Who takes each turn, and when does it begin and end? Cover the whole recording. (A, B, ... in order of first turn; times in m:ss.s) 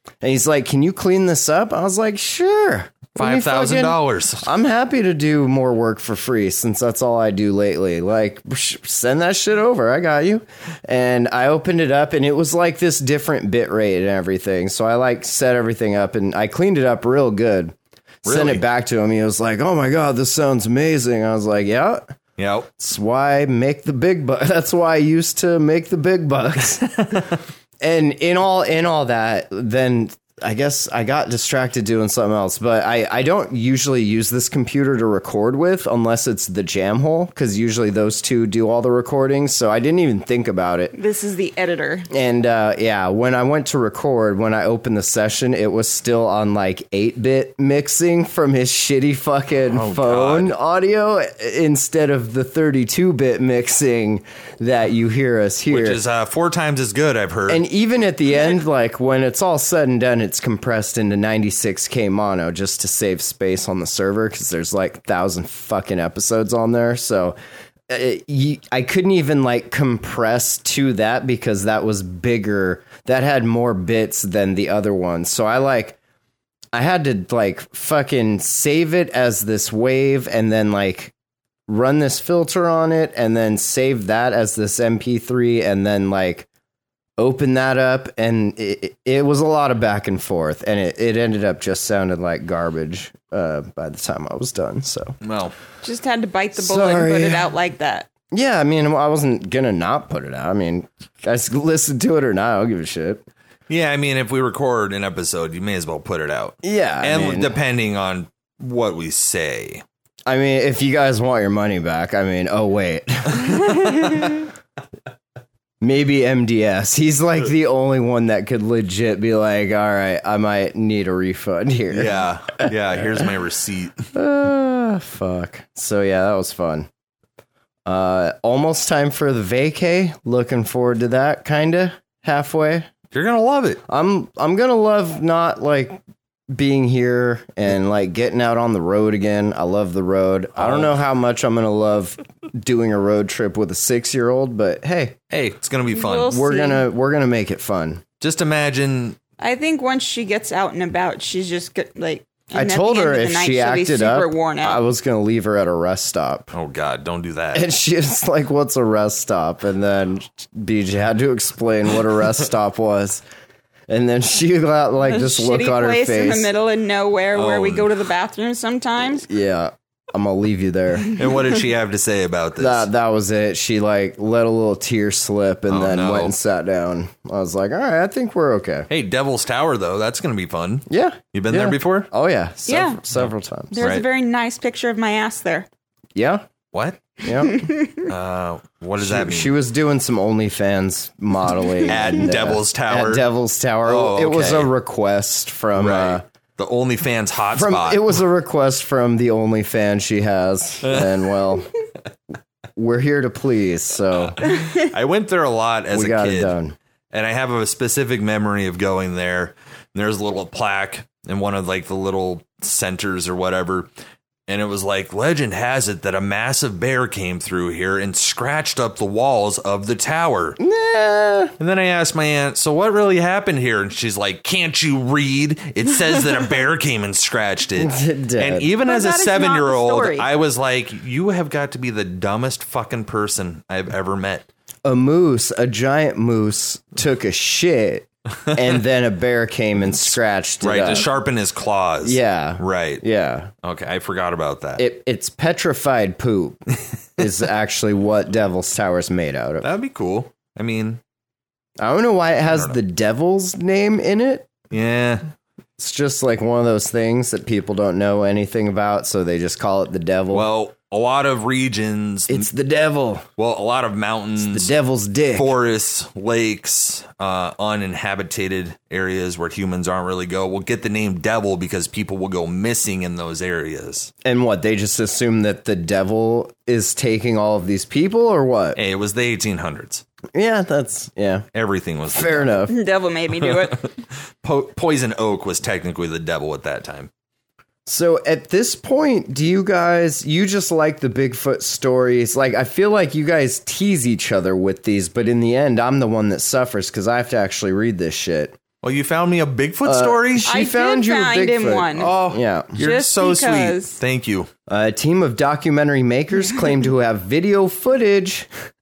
0:00.2-0:22.1 A
0:03.2-0:04.5 B
0:18.2-0:18.6 B
0:22.4-0:22.7 B
0:22.8-0:27.2 A
0:27.0-0:27.3 B
0:27.8-0:40.9 A
0:40.9-0:42.1 C
0:42.1-0:56.0 A
0:49.7-0:50.6 B
0:55.7-0:57.6 B
0:57.5-1:07.4 A
1:07.9-1:16.0 A
1:16.7-1:21.1 A
1:21.7-1:26.5 A
1:27.2-1:35.2 A
1:35.2-1:35.5 B
1:35.8-1:38.1 C
1:36.6-1:37.5 A
1:38.3-1:43.2 A
1:43.7-1:49.8 B
1:46.6-1:47.6 A
1:50.2-1:54.4 A
1:55.8-2:03.2 A
2:01.9-2:04.0 B
2:04.1-2:06.9 A
2:07.9-2:12.9 A
2:13.1-2:13.8 B
2:13.9-2:25.2 A
2:20.6-2:21.0 B
2:25.3-2:26.4 B
2:25.9-2:26.8 C
2:26.2-2:28.0 A
2:28.2-2:29.2 B
2:29.4-2:34.8 C
2:32.5-2:36.5 A
2:36.5-2:37.6 B
2:37.5-2:43.2 A
2:43.9-2:46.5 A
2:45.0-2:49.3 C
2:47.3-2:47.9 B
2:49.3-2:51.1 A
2:51.1-2:52.9 B
2:52.6-2:58.9 A
2:55.7-2:56.3 B
2:58.9-3:02.1 B
3:00.9-3:03.8 A
3:02.7-3:03.0 C
3:03.1-3:04.0 B
3:03.7-3:05.7 C
3:06.2-3:06.5 A
3:06.7-3:07.0 B
3:07.2-3:07.7 A
3:08.0-3:09.6 B
3:09.0-3:16.2 A
3:11.9-3:13.2 B
3:13.8-3:14.7 B
3:15.8-3:18.2 B
3:17.5-3:21.7 A
3:20.8-3:21.1 B
3:22.8-3:24.4 A
3:24.2-3:26.6 B
3:25.9-3:26.8 A
3:27.1-3:33.9 B
3:34.5-3:40.6 B
3:40.6-3:41.5 A
3:41.6-3:54.5 B
3:47.8-3:48.7 A
3:48.8-3:50.3 C
3:54.8-4:01.1 A
3:59.8-4:03.0 B
4:02.0-4:03.5 A
4:03.6-4:04.8 B
4:04.8-4:06.6 A
4:07.2-4:09.7 A
4:09.6-4:11.0 B
4:11.8-4:14.5 A
4:12.5-4:12.8 B
4:14.7-4:15.2 B
4:15.8-4:20.5 A
4:20.3-4:22.5 B
4:22.3-4:23.2 A
4:23.4-4:24.7 B
4:24.4-4:25.6 A
4:25.4-4:34.1 B
4:34.2-4:38.8 A
4:38.8-4:40.0 B
4:40.3-4:41.5 A
4:41.5-4:42.6 B
4:42.1-4:42.7 A
4:42.7-4:43.9 C
4:44.4-4:47.1 B
4:47.9-4:58.6 A
4:58.8-5:00.5 B
4:59.8-5:02.8 A
5:00.4-5:02.1 C
5:02.0-5:04.5 B
5:02.8-5:04.0 C
5:04.7-5:08.5 A